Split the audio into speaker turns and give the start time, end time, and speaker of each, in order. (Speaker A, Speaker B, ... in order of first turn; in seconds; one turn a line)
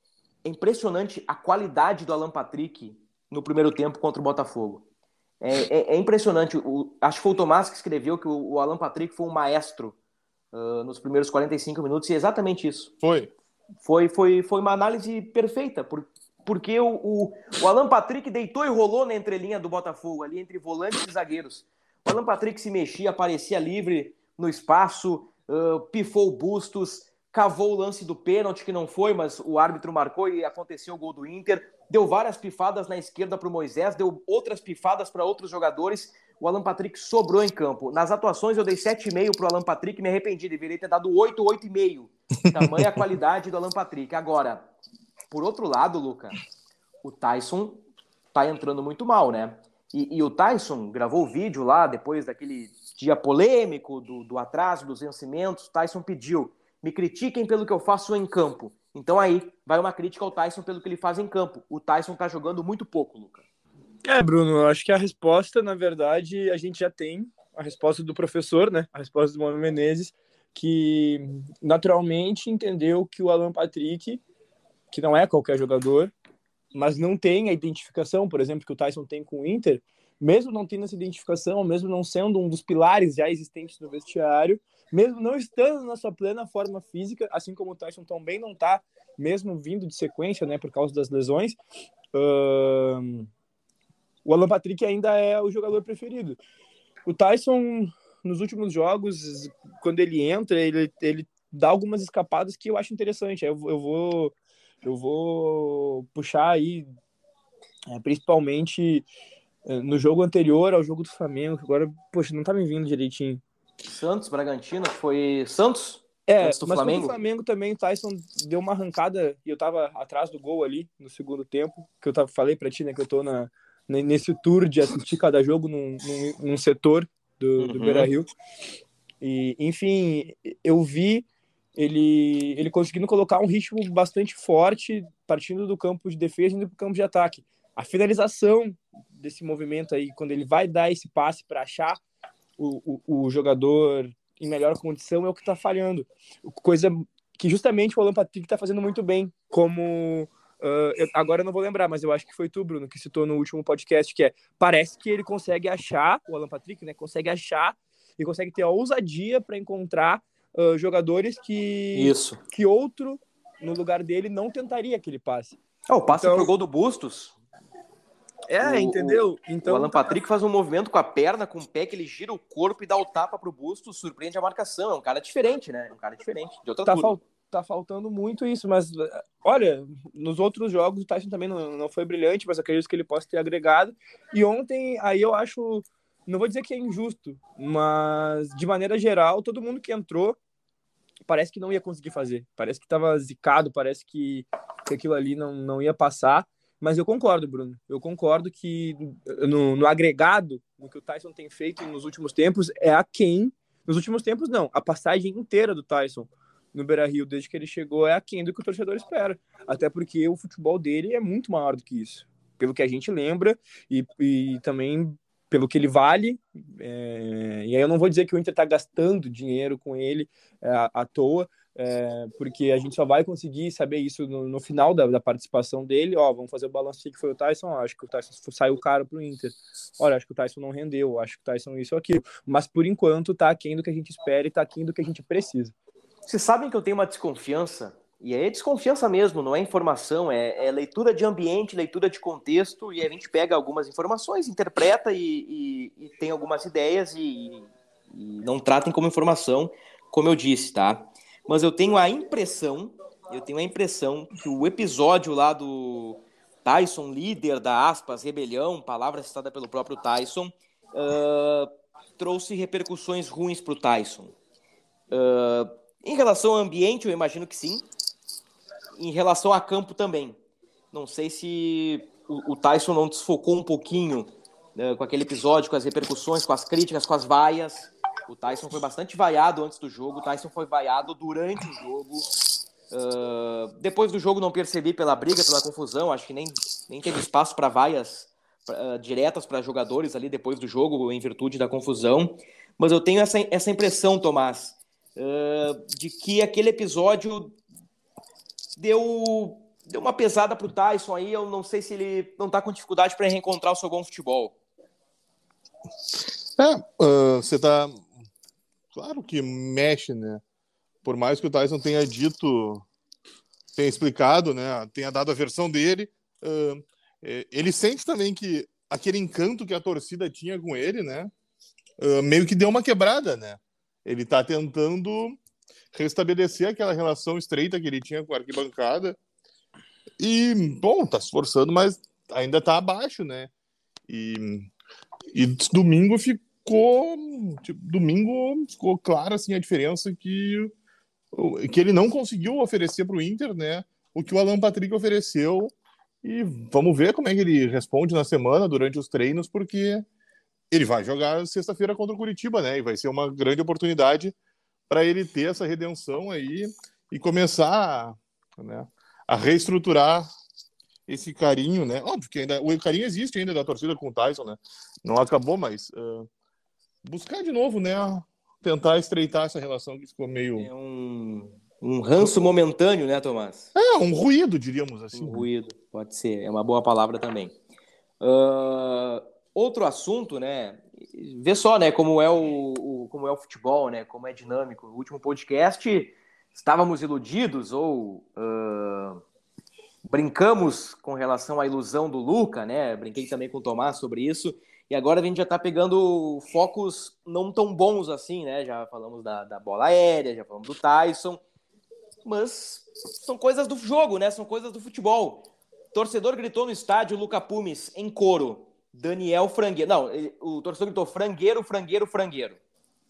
Speaker A: 0.4-4.8
Speaker A: 5.4-9.9
Speaker A: 10.5-12.9
Speaker B: 13.0-13.3
Speaker A: 13.8-44.6
Speaker B: 42.5-43.0
Speaker A: 45.3-46.4
Speaker A: 47.0-47.8
Speaker A: 48.3-63.4
Speaker C: 64.0-74.2
Speaker C: 74.9-76.1
Speaker C: 76.7-91.6
Speaker C: 92.1-93.3
Speaker C: 94.2-96.4
Speaker C: 97.0-106.9
Speaker C: 107.9-109.1
Speaker C: 109.7-113.4
Speaker A: 113.9-117.2
Speaker C: 116.3-128.3
Speaker A: 127.6-128.1
Speaker C: 129.2-131.2
Speaker C: 131.8-142.0
Speaker C: 142.6-165.6
Speaker A: 161.9-162.4
Speaker A: 165.9-167.3
Speaker C: 166.1-166.5
Speaker C: 168.5-170.1
Speaker A: 168.6-177.2
Speaker C: 176.8-190.4
Speaker C: 191.3-235.7
Speaker A: 236.2-264.3
Speaker A: 265.1-267.9
Speaker A: 268.9-270.4
Speaker A: 270.9-282.3
Speaker A: 282.9-297.6
Speaker A: 298.8-304.6
Speaker B: 306.6-308.0
Speaker B: 308.9-310.4
Speaker B: 311.0-312.9
Speaker B: 313.7-321.3
Speaker B: 322.0-325.4
Speaker B: 325.9-329.2
Speaker B: 330.2-333.5
Speaker B: 334.1-334.7
Speaker B: 335.3-340.7
Speaker B: 341.3-350.1
Speaker B: 350.7-354.3
Speaker B: 354.9-360.3
Speaker B: 361.1-366.3
Speaker B: 367.0-370.7
Speaker A: 370.6-373.7
Speaker B: 373.7-375.5
Speaker A: 375.1-377.5
Speaker A: 378.2-389.2
Speaker A: 390.1-401.4
Speaker A: 402.2-412.6